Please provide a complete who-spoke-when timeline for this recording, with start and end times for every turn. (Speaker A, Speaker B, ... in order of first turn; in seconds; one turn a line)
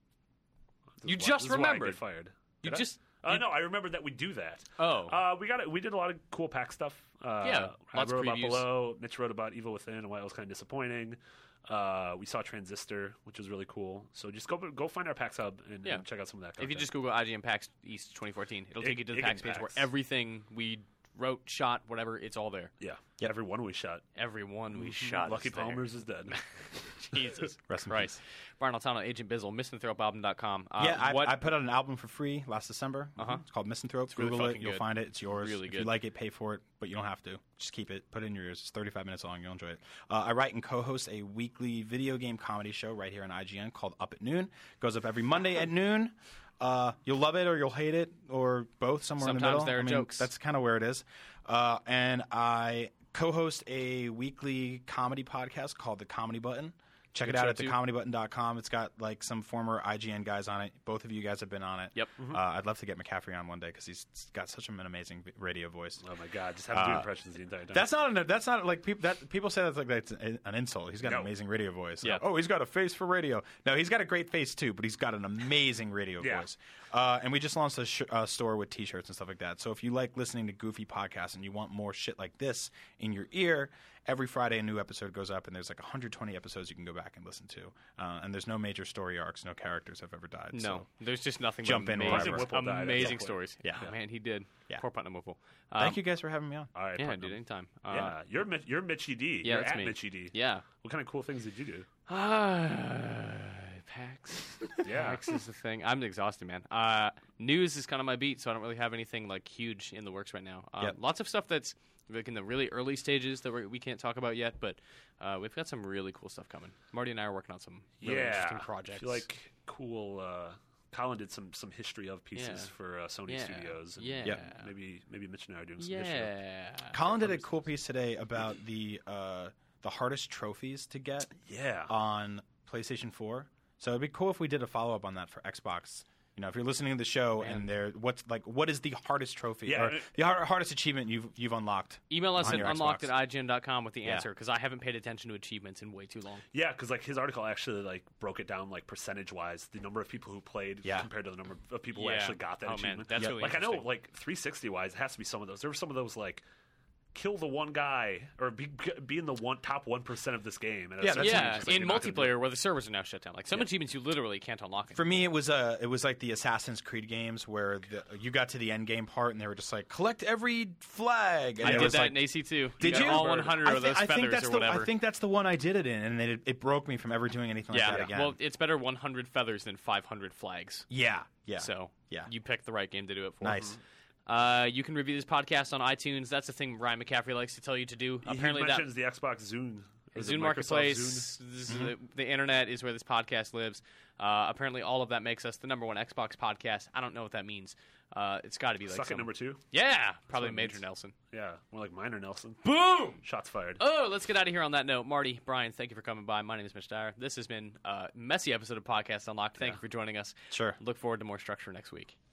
Speaker A: 1.0-16.9
Speaker B: 1.0-2.0
Speaker B: 2.6-3.4
Speaker B: 4.8-5.2
Speaker B: 7.4-8.7
Speaker B: 16.6-22.7
Speaker A: 18.8-19.8
Speaker A: 22.8-24.1
Speaker B: 24.1-31.4
Speaker A: 24.8-26.4
Speaker C: 27.7-28.2
Speaker C: 30.8-66.0
Speaker B: 33.2-33.4
Speaker B: 34.1-35.9
Speaker B: 49.2-50.3
Speaker B: 57.2-57.8
Speaker A: 66.0-67.8
Speaker C: 66.7-67.1
Speaker C: 67.7-90.9
Speaker A: 71.0-71.3
Speaker A: 76.2-76.5
Speaker B: 90.5-96.0
Speaker C: 91.6-93.9
Speaker A: 92.0-93.9
Speaker C: 95.8-96.7
Speaker A: 96.7-101.9
Speaker B: 97.0-98.2
Speaker B: 99.4-100.6
Speaker B: 102.1-119.2
Speaker A: 104.8-105.2
Speaker A: 118.0-126.3
Speaker B: 122.3-122.7
Speaker B: 123.3-124.7
Speaker B: 125.8-127.4
Speaker C: 126.9-131.3
Speaker A: 131.4-131.9
Speaker C: 131.9-143.1
Speaker B: 137.4-137.7
Speaker A: 139.6-140.1
Speaker B: 142.1-146.4
Speaker A: 146.5-156.4
Speaker B: 151.9-153.9
Speaker A: 157.1-162.4
Speaker C: 161.0-162.0
Speaker B: 161.1-165.1
Speaker C: 164.9-178.4
Speaker B: 171.6-174.9
Speaker A: 171.7-171.9
Speaker A: 172.8-173.5
Speaker B: 177.7-180.9
Speaker A: 177.8-178.1
Speaker C: 180.9-182.3
Speaker B: 181.6-183.7
Speaker C: 183.4-183.8
Speaker B: 184.3-188.9
Speaker A: 188.2-191.3
Speaker B: 190.1-201.1
Speaker C: 191.7-191.9
Speaker A: 198.9-199.6
Speaker A: 200.3-200.8
Speaker A: 201.3-202.7
Speaker B: 202.6-203.2
Speaker A: 203.2-203.8
Speaker B: 203.8-212.1
Speaker C: 210.5-210.8